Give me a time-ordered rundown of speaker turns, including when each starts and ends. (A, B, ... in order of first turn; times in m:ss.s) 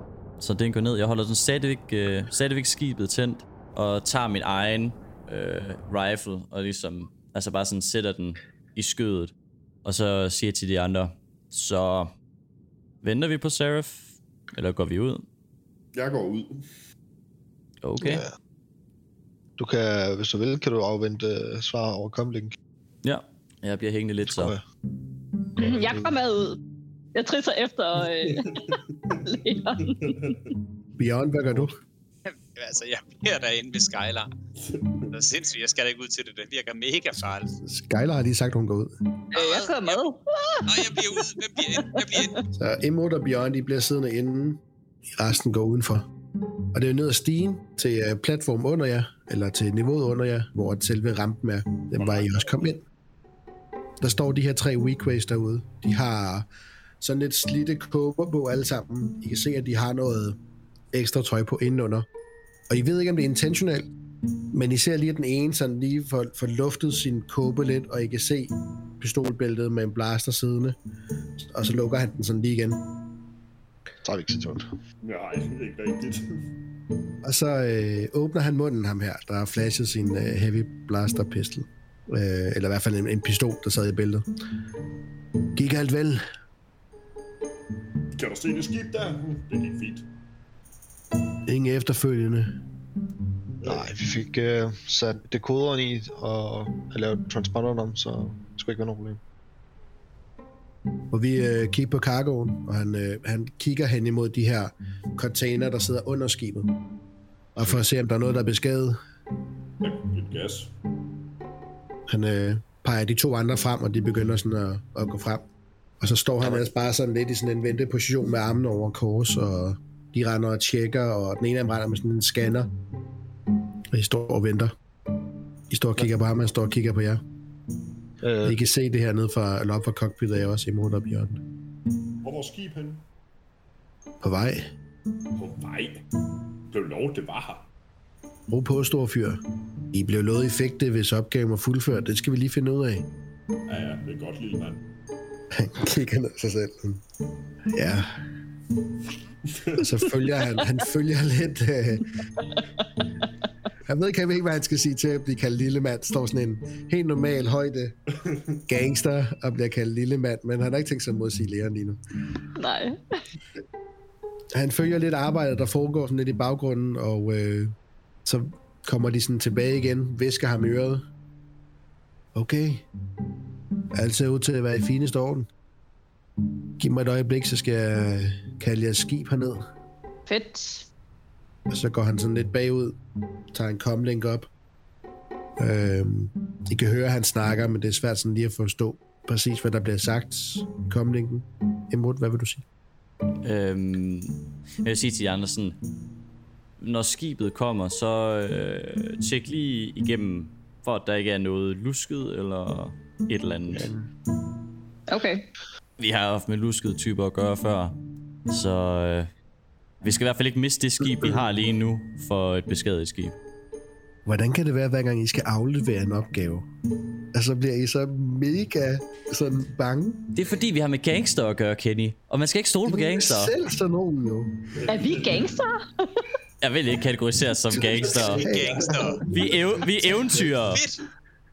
0:00.4-0:09.3 A
0:09.8-0:12.1 A
0:13.0-0:15.2 A
0:15.9-0:16.6 B
0:17.8-0:18.2 A
0:18.0-0:18.3 C
0:19.6-0:22.6 C
0:23.0-0:24.6 A
0:24.3-0:24.6 C
0:25.6-0:26.6 D
0:27.2-0:30.4 D
0:28.1-0:29.2 B
0:29.8-0:30.4 B
0:31.0-0:31.8 E
0:32.3-0:34.3 F
0:34.6-0:35.1 B
0:35.1-0:37.6 F
0:37.6-0:38.9 E
0:39.3-0:40.0 F
0:39.3-0:42.4 D
0:40.7-0:42.4 F
0:42.5-0:44.6 E
0:45.2-0:46.1 E
0:46.7-0:52.8 E
0:52.0-0:52.7 B
0:54.0-0:56.5 E
0:57.0-1:00.4 E
1:00.9-1:02.1 E
1:02.7-1:03.9 E
1:04.5-1:10.8 E
1:11.4-1:12.8 E
1:14.0-1:14.7 C
1:15.0-1:16.2 B
1:17.2-1:24.3 E
1:25.6-1:26.2 E
1:28.2-1:30.1 B
1:31.5-1:32.5 E
1:33.6-1:39.2 C
1:41.1-1:46.7 E
1:47.6-1:49.0 E
1:49.8-1:50.7 B
1:52.1-1:55.5 E
1:56.0-2:02.7 E
2:03.9-2:04.7 E
2:05.7-2:07.2 E
2:08.2-2:08.6 C
2:08.4-2:11.4 E
2:12.2-2:13.0 B
2:14.2-2:14.7 E
2:15.4-2:16.0 B
2:16.7-2:17.7 B
2:18.5-2:19.4 E
2:19.9-2:23.1 E
2:23.7-2:24.8 B
2:25.5-2:27.0 E
2:27.7-2:28.1 E
2:29.5-2:30.2 B
2:29.8-2:32.1 E
2:33.9-2:37.9 E
2:38.7-2:42.0 E
2:42.6-2:43.0 D
2:44.5-2:47.7 E
2:48.3-2:51.0 E
2:52.4-2:52.8 E
2:53.9-2:55.5 E
2:56.8-2:59.6 E
3:00.3-3:00.9 D
3:01.7-3:03.0 E
3:03.5-3:04.5 E
3:05.6-3:12.6 E
3:13.4-3:15.8 A
3:16.8-3:23.9 A
3:25.1-3:25.5 D
3:26.0-3:28.0 A
3:28.5-3:29.3 A
3:30.0-3:33.4 A
3:34.3-3:36.7 E
3:37.3-3:40.3 E
3:40.3-3:43.5 A
3:42.9-3:44.6 E
3:44.8-3:45.5 B
3:44.9-3:46.2 D
3:46.6-3:48.5 A
3:47.7-3:49.2 E
3:47.9-3:49.2 F
3:48.1-3:49.7 B
3:49.3-3:50.8 A
3:50.5-3:51.0 F